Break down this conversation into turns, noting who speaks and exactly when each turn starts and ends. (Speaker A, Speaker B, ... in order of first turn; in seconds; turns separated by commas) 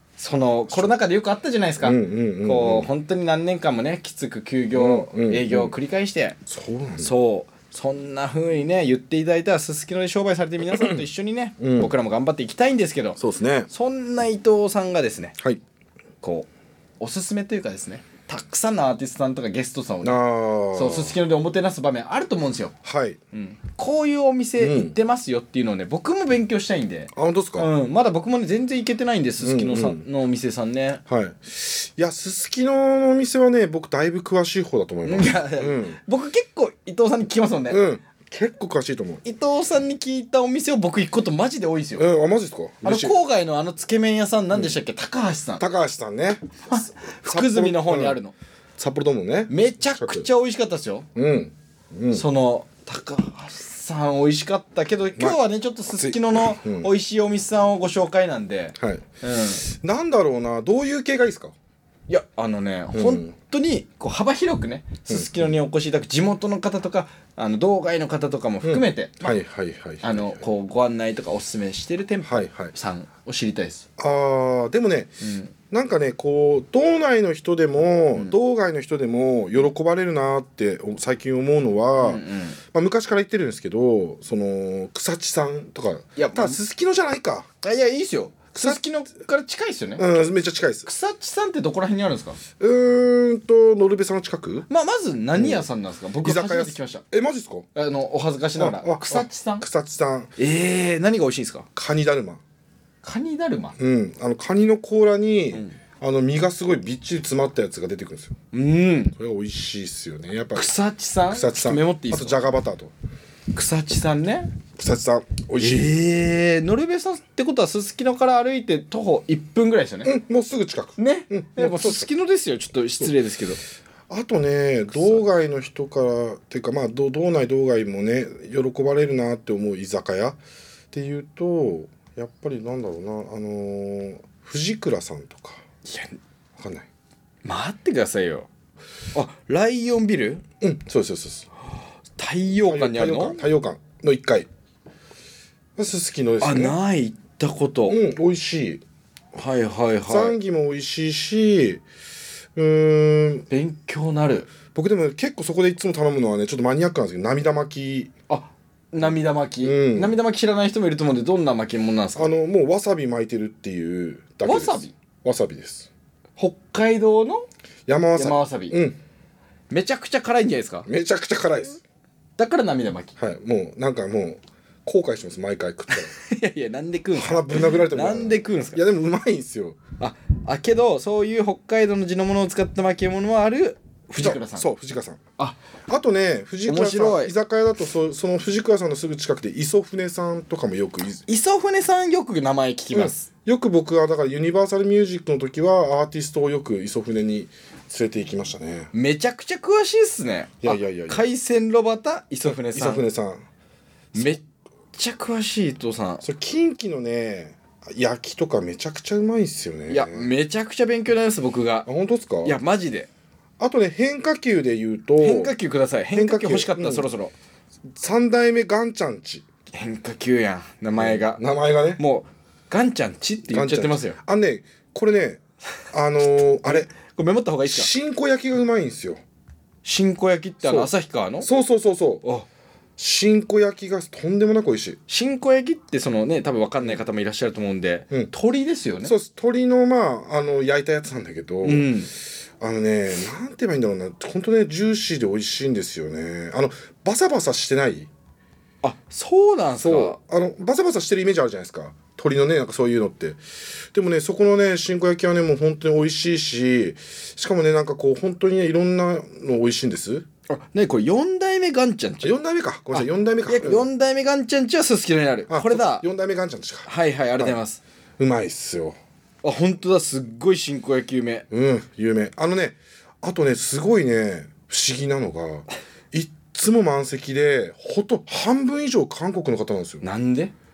Speaker A: 0.2-6.4, Speaker B: 0.7-0.9, Speaker B: 1.8-2.9, Speaker B: 4.8-5.8, Speaker B: 6.5-7.1, Speaker A: 7.0-13.2, Speaker B: 10.7-11.0, Speaker B: 11.6-11.9, Speaker B: 13.2-13.7, Speaker A: 13.7-15.3, Speaker A: 16.2-16.5, Speaker A: 17.0-22.7, Speaker B: 20.0-21.2, Speaker B: 22.8-23.2, Speaker A: 23.3-31.0, Speaker B: 24.6-24.9, Speaker B: 27.1-27.7, Speaker B: 29.4-30.1, Speaker B: 31.1-36.0, Speaker A: 35.0-37.8, Speaker B: 37.7-39.2, Speaker A: 39.2-42.0, Speaker B: 42.0-43.2, Speaker A: 42.8-45.6, Speaker B: 45.6-48.2, Speaker A: 46.6-48.3, Speaker B: 48.8-50.3, Speaker A: 49.5-51.1, Speaker B: 51.1-52.2, Speaker A: 52.1-59.6, Speaker B: 55.9-56.9, Speaker B: 58.8-59.0, Speaker B: 59.6-61.5, Speaker A: 62.1-69.4, Speaker B: 62.9-63.3, Speaker B: 65.1-65.5, Speaker B: 68.6-70.4, Speaker A: 70.0-73.8, Speaker B: 72.2-72.7, Speaker B: 74.0-75.1, Speaker A: 75.2-75.5, Speaker B: 75.7-82.2, Speaker A: 82.0-82.6, Speaker B: 82.7-87.5, Speaker A: 86.2-86.6, Speaker A: 87.6-90.2, Speaker B: 90.0-90.9, Speaker A: 90.8-92.4, Speaker B: 92.6-94.7, Speaker A: 94.7-97.0, Speaker B: 95.3-95.7, Speaker B: 96.2-97.7, Speaker A: 97.8-99.6, Speaker B: 98.6-100.3, Speaker A: 100.4-101.7, Speaker B: 101.8-102.4, Speaker A: 103.0-103.8, Speaker B: 103.8-108.3, Speaker A: 108.5-109.1, Speaker B: 109.2-110.7, Speaker A: 110.5-112.4, Speaker B: 111.3-112.9, Speaker A: 113.5-114.5, Speaker B: 114.8-116.0, Speaker A: 115.6-120.1, Speaker B: 120.0-122.1, Speaker A: 121.0-123.6, Speaker B: 124.1-130.4, Speaker A: 124.9-125.2, Speaker B: 130.9-135.6, Speaker A: 135.8-136.2, Speaker B: 136.6-136.9, Speaker A: 137.4-138.5, Speaker A: 139.1-140.4, Speaker B: 140.6-141.5, Speaker A: 142.2-143.4, Speaker B: 142.6-144.5, Speaker B: 145.8-146.8, Speaker A: 146.4-148.0, Speaker B: 147.9-148.8, Speaker A: 149.3-150.4, Speaker B: 150.1-151.8, Speaker B: 152.5-153.5, Speaker A: 153.5-154.5, Speaker B: 154.7-158.1, Speaker A: 158.3-162.3, Speaker B: 159.6-160.2, Speaker B: 162.1-165.9, Speaker A: 164.4-164.9, Speaker A: 166.4-167.4, Speaker B: 167.9-169.0, Speaker A: 168.1-168.8, Speaker A: 169.7-170.9, Speaker B: 170.8-171.8, Speaker A: 172.4-173.1, Speaker B: 173.2-176.1, Speaker A: 175.9-178.8, Speaker B: 177.1-179.8, Speaker A: 180.0-184.7, Speaker B: 184.2-185.2, Speaker B: 185.9-191.2, Speaker A: 186.7-187.3, Speaker A: 191.2-193.3, Speaker B: 192.9-198.9, Speaker A: 198.9-203.0, Speaker B: 200.6-201.3, Speaker B: 202.4-203.4, Speaker A: 204.1-204.4, Speaker A: 204.9-206.2, Speaker B: 206.2-210.3, Speaker A: 209.9-211.9, Speaker B: 211.9-212.6, Speaker A: 212.4-213.1, Speaker B: 213.6-215.6, Speaker A: 215.2-217.3, Speaker B: 216.1-217.1, Speaker B: 217.9-219.4, Speaker A: 219.7-221.4, Speaker B: 220.9-222.0, Speaker A: 222.0-224.2, Speaker B: 223.5-225.4, Speaker B: 225.9-226.9, Speaker A: 226.6-227.9, Speaker B: 227.6-229.2, Speaker A: 229.8-231.5, Speaker B: 230.6-232.2, Speaker B: 233.0-235.0, Speaker A: 235.1-239.1, Speaker B: 239.0-241.9, Speaker A: 241.6-242.1, Speaker B: 242.6-248.1, Speaker A: 248.8-250.2, Speaker B: 249.8-253.4, Speaker B: 253.9-260.2, Speaker A: 260.5-262.4, Speaker B: 262.2-263.9, Speaker A: 262.9-266.0, Speaker B: 265.5-267.6, Speaker A: 266.9-267.8, Speaker B: 268.2-269.0, Speaker A: 269.4-271.4, Speaker B: 271.5-280.0, Speaker A: 280.0-280.5